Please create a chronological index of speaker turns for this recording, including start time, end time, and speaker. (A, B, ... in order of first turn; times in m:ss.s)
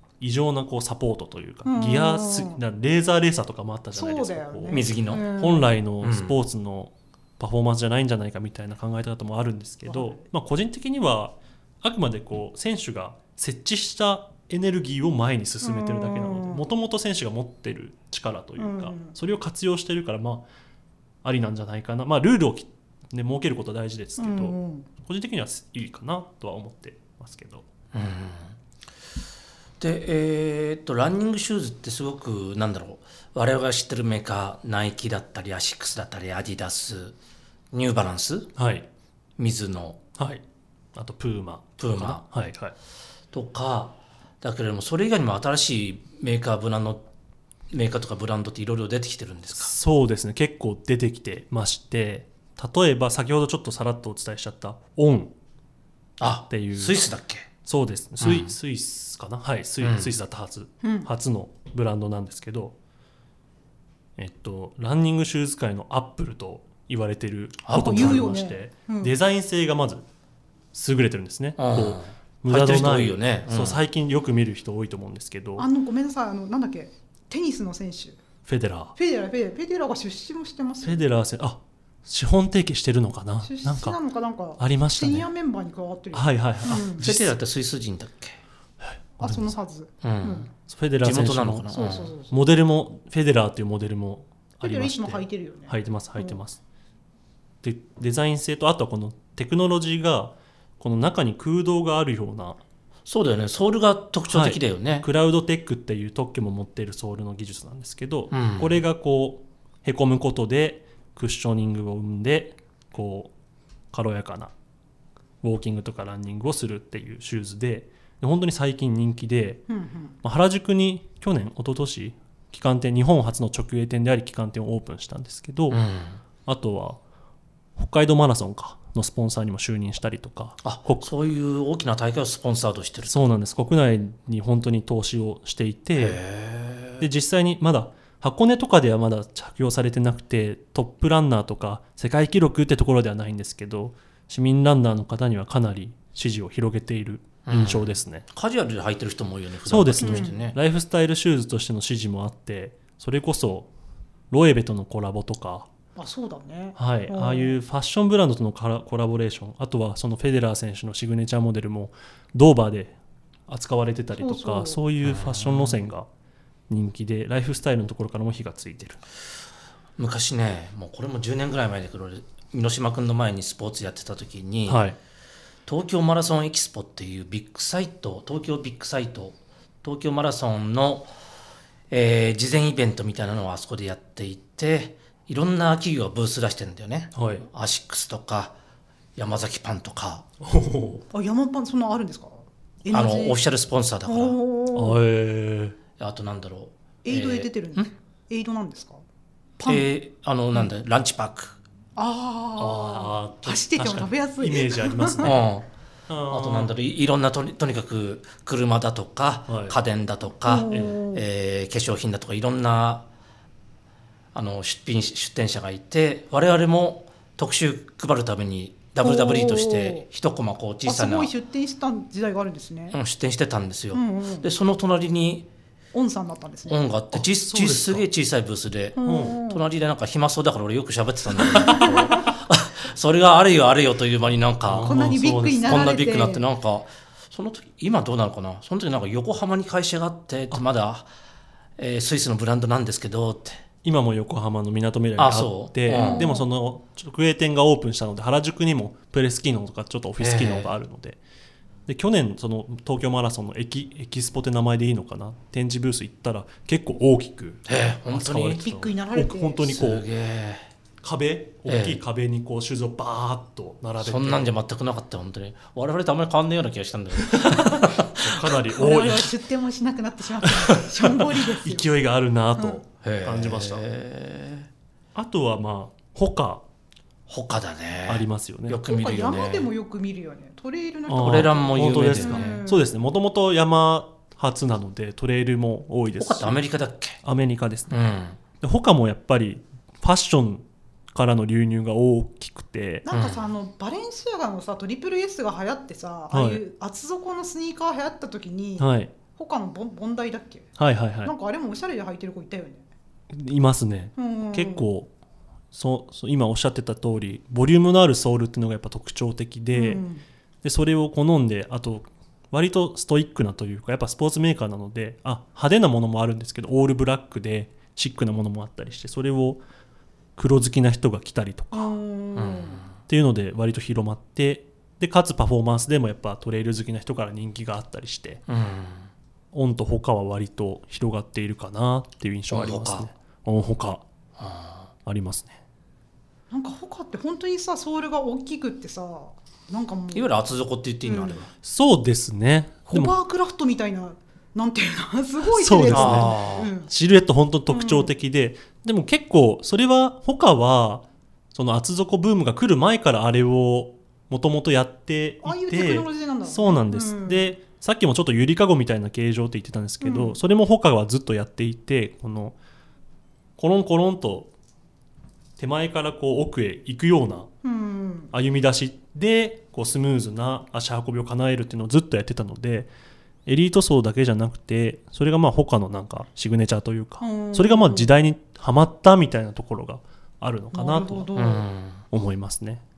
0:00.2-0:20.4 A
0:01.6-0:02.6 B
0:03.9-0:05.7 B
0:04.7-0:05.3 C
0:06.0-0:06.4 C
0:09.8-0:10.2 B
0:15.6-0:16.6 B
0:18.6-0:19.1 B
0:21.2-0:27.6 A
0:24.2-0:24.9 B
0:27.9-0:28.5 C
0:29.8-0:37.2 C
0:37.7-0:38.5 C
0:38.6-0:38.9 A
0:39.4-0:40.0 C
0:40.2-0:40.4 A
0:40.9-0:42.7 A
0:41.8-0:42.2 C
0:43.3-0:47.1 C
0:47.7-0:49.7 C
0:49.5-0:55.3 A
0:56.2-0:57.5 C
0:56.5-0:57.0 A
0:57.6-1:02.8 A
0:58.2-0:58.5 C
0:59.8-1:00.1 C
1:00.8-1:01.1 B
1:04.2-1:10.0 A
1:07.6-1:08.3 C
1:07.7-1:09.1 B
1:10.7-1:15.7 A
1:11.6-1:13.8 C
1:15.6-1:18.2 B
1:18.4-1:18.9 A
1:19.0-1:21.0 B
1:20.8-1:24.0 A
1:23.4-1:27.0 B
1:24.6-1:25.3 A
1:26.1-1:27.3 A
1:27.0-1:28.4 C
1:28.8-1:29.5 A
1:29.2-1:30.5 B
1:30.0-1:30.5 C
1:30.7-1:31.7 A
1:31.0-1:32.1 C
1:31.7-1:32.4 B
1:32.3-1:36.6 A
1:34.6-1:36.4 B
1:37.6-1:42.6 A
1:43.0-1:45.1 C
1:44.3-1:53.3 A
1:48.3-1:48.8 C
1:53.9-1:54.5 A
1:55.4-1:59.6 A
1:59.7-2:00.2 B
2:00.2-2:05.8 A
2:05.7-2:06.2 C
2:06.4-2:07.0 A
2:07.8-2:11.1 A
2:10.6-2:13.2 C
2:13.1-2:16.2 A
2:16.0-2:17.1 C
2:17.0-2:28.2 A
2:27.4-2:30.6 C
2:29.6-2:33.7 A
2:30.0-2:30.4 B
2:34.3-2:35.7 A
2:36.0-2:37.6 B
2:36.8-2:43.0 A
2:43.5-2:46.1 A
2:44.1-2:44.8 B
2:45.0-2:45.8 C
2:46.7-2:49.0 A
2:50.0-2:54.8 C
2:54.7-2:55.0 A
2:55.6-3:01.1 C
3:01.9-3:08.6 C
3:07.1-3:07.5 A
3:09.2-3:10.3 C
3:10.4-3:11.0 A
3:11.1-3:13.4 B
3:12.9-3:14.4 C
3:14.0-3:15.0 B
3:14.7-3:15.8 A
3:16.0-3:17.9 C
3:17.0-3:19.0 B
3:19.6-3:19.9 B
3:19.6-3:21.6 C
3:22.0-3:25.3 B
3:22.6-3:25.4 A
3:25.2-3:25.7 C
3:26.1-3:26.7 A
3:26.3-3:33.1 C
3:29.5-3:29.8 A
3:30.4-3:31.2 B
3:30.7-3:31.0 A
3:34.3-3:41.3 C
3:39.0-3:40.1 B
3:40.8-3:43.0 B
3:42.9-3:45.5 C
3:43.9-3:44.5 B
3:45.9-3:46.8 B
3:46.7-3:55.0 C
3:47.1-3:48.0 A
3:49.0-3:49.6 B
3:49.0-3:49.4 A
3:51.5-3:52.3 B
3:54.7-3:55.8 A
3:54.8-3:56.4 B
3:55.6-4:01.1 C
4:01.8-4:03.6 C
4:03.8-4:11.2 A
4:05.2-4:06.3 C
4:05.9-4:06.4 B
4:10.2-4:10.7 C
4:11.9-4:20.1 A
4:17.7-4:18.6 C
4:18.6-4:19.7 B
4:19.7-4:20.6 C
4:21.0-4:24.5 A
4:21.7-4:22.0 C
4:24.0-4:28.6 C
4:27.2-4:29.3 A
4:28.7-4:31.9 B
4:30.4-4:33.8 A
4:33.0-4:34.7 C
4:35.1-4:36.6 A
4:37.3-4:39.7 C
4:38.1-4:38.8 A
4:38.8-4:42.9 B
4:41.1-4:46.6 A
4:41.2-4:42.6 C
4:46.2-4:47.2 C
4:47.2-4:48.0 A
4:47.9-4:48.4 C
4:48.6-4:53.0 A
4:53.0-5:00.7 B
4:53.1-4:53.4 C
4:56.3-4:56.6 A
4:58.8-4:59.1 A
5:00.8-5:01.3 A
5:01.2-5:02.8 B
5:03.3-5:05.1 A
5:04.2-5:04.8 B
5:05.7-5:10.0 A
5:09.7-5:10.2 B
5:10.6-5:19.6 A
5:20.4-5:22.0 A
5:21.7-5:22.8 B
5:22.4-5:22.9 C
5:23.1-5:28.4 A
5:28.5-5:29.1 C
5:29.5-5:34.0 A
5:32.5-5:33.1 C
5:34.4-5:34.9 C
5:35.0-5:35.6 A
5:36.5-5:40.3 B
5:40.1-5:41.5 C
5:41.0-5:41.4 B
5:41.6-5:43.1 A
5:42.9-5:46.9 B
5:45.4-6:02.5 A
5:45.9-5:46.7 C
5:47.7-5:48.1 B
5:55.4-5:57.5 B
6:00.0-6:00.4 B
6:03.6-6:04.5 A
6:05.6-6:07.5 A
6:07.6-6:08.3 B
6:08.3-6:12.9 A
6:13.4-6:21.3 A
6:17.2-6:18.1 B
6:20.7-6:21.6 B
6:21.3-6:22.0 C
6:22.1-6:22.8 A